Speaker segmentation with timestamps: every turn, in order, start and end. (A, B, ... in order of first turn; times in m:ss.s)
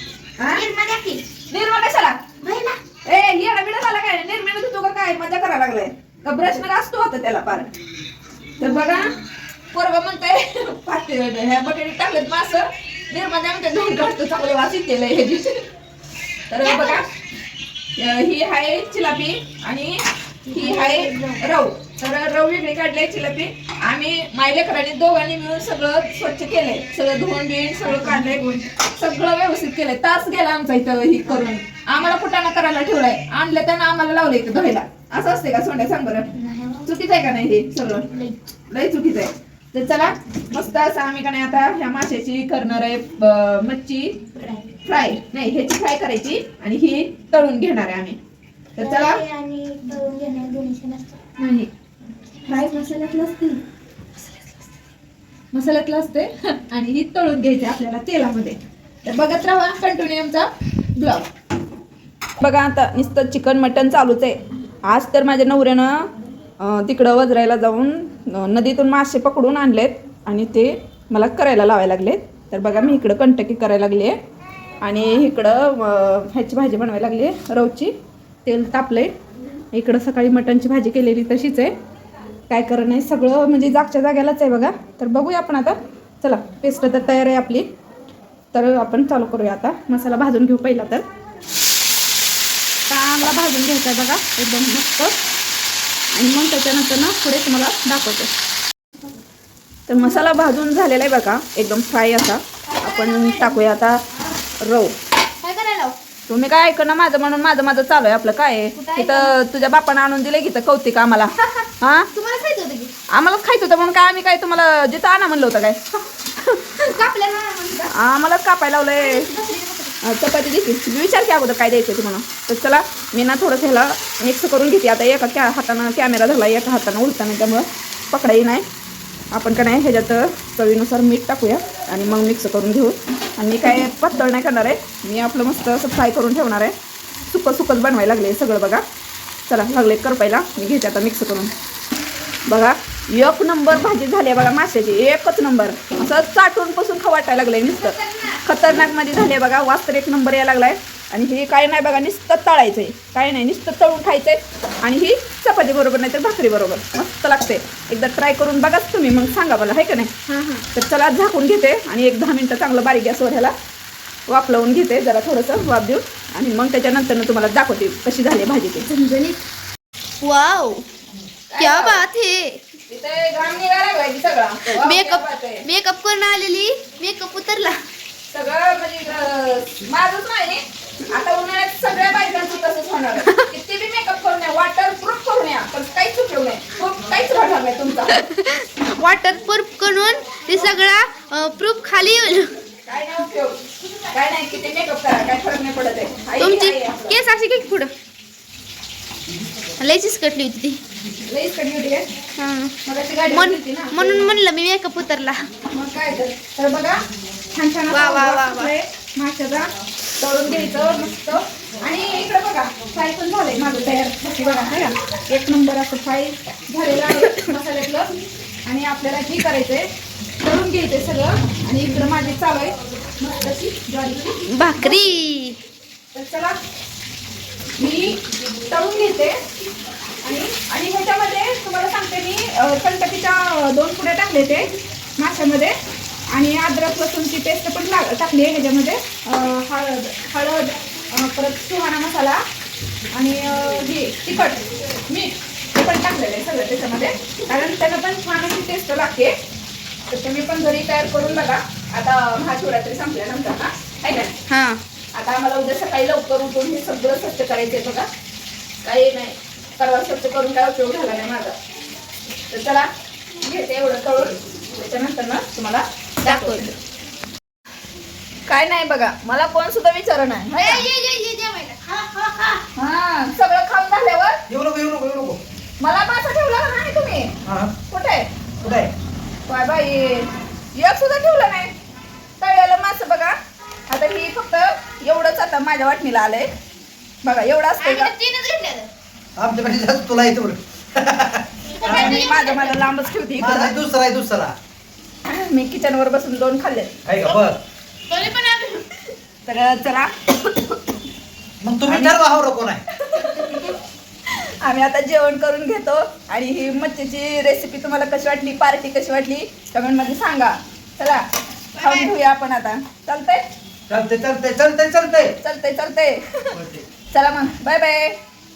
0:00.4-0:00.6 A
0:00.5-0:01.2 B
0:01.5-0:02.2 A
0:02.4-0:02.8 B
0:03.0-0:07.7 A
0:08.6-0:09.1 A
0:09.7-0:15.6 A
0:16.5-0:17.1 A
0:16.6-0:17.0 B
0:18.0-0:36.3 A
0:20.5-0:21.4 B
0:36.4-0:36.8 B
0:36.8-0:38.2 A
0:38.7-0:44.2 A
0:44.4-0:44.7 B
0:44.8-0:48.2 A
0:48.8-0:49.2 A
0:48.8-0:51.2 B
0:51.4-0:51.7 A
0:52.4-0:53.6 A
0:55.5-1:01.3 A
1:02.4-1:05.9 A
1:06.6-1:14.2 A
1:14.8-1:17.9 A
1:18.4-1:19.1 A
1:19.7-1:21.7 A
1:22.5-1:27.7 A
1:28.5-1:31.0 A
1:32.9-1:35.2 A
1:36.1-1:38.3 A
1:39.9-1:44.0 A
1:42.7-1:43.6 B
1:44.6-1:44.9 A
1:45.4-1:46.0 B
1:46.3-1:52.1 A
1:48.8-1:49.3 B
1:51.4-1:52.9 B
1:53.1-1:55.8 A
1:56.8-1:57.9 B
1:57.9-1:59.2 A
1:59.0-2:00.0 B
2:00.0-2:08.6 A
2:09.3-2:16.7 A
2:17.3-2:18.8 A
2:19.5-2:21.5 A
2:22.5-2:43.5 A
2:27.7-2:28.4 B
2:40.4-2:40.6 B
2:44.3-2:49.2 A
2:49.0-2:49.4 B
2:50.2-2:50.9 B
2:51.5-2:52.0 A
2:51.6-2:52.6 B
2:52.9-2:55.6 A
2:54.7-2:57.8 B
2:58.3-3:08.2 A
3:03.2-3:03.5 B
3:08.1-3:12.5 B
3:12.8-3:17.2 A
3:16.4-3:17.9 B
3:19.8-3:20.8 B
3:21.3-3:22.1 A
3:22.4-3:22.8 B
3:22.8-3:24.0 A
3:23.3-3:25.5 B
3:25.7-3:27.0 A
3:27.5-3:38.1 A
3:27.9-3:28.7 B
3:37.1-3:37.5 B
3:38.7-3:39.9 A
3:40.4-3:44.4 A
3:44.5-3:45.6 B
3:46.1-3:46.6 A
3:47.8-3:49.4 A
3:50.2-3:55.8 A
3:56.3-4:02.4 A
4:03.1-4:09.4 A
4:10.1-4:14.4 A
4:14.5-4:14.8 B
4:15.2-4:18.1 A
4:18.8-4:21.6 A
4:22.5-4:22.9 A
4:23.4-4:26.8 A
4:26.2-4:26.7 B
4:28.5-4:30.9 A
4:30.6-4:32.6 B
4:32.8-4:34.4 A
4:34.5-4:35.4 C
4:35.8-4:37.3 A
4:37.4-4:37.7 C
4:37.9-4:38.3 A
4:38.6-4:38.9 C
4:39.5-4:41.7 A
4:42.4-4:43.4 A
4:43.9-4:46.5 A
4:47.2-4:48.1 A
4:47.8-4:48.9 B
4:49.4-4:52.3 C
4:51.7-4:52.8 B
4:51.8-4:53.7 A
4:53.4-4:54.5 C
4:55.2-4:56.9 A
4:57.1-4:57.6 C
4:58.1-4:59.0 B
4:59.5-5:00.8 A
5:01.6-5:02.8 C
5:01.9-5:02.2 A
5:03.0-5:03.7 A
5:03.4-5:03.7 B
5:04.3-5:11.2 A
5:11.8-5:13.4 A
5:11.8-5:12.1 B
5:13.9-5:15.3 C
5:15.4-5:16.6 A
5:16.5-5:16.8 C
5:17.1-5:18.2 A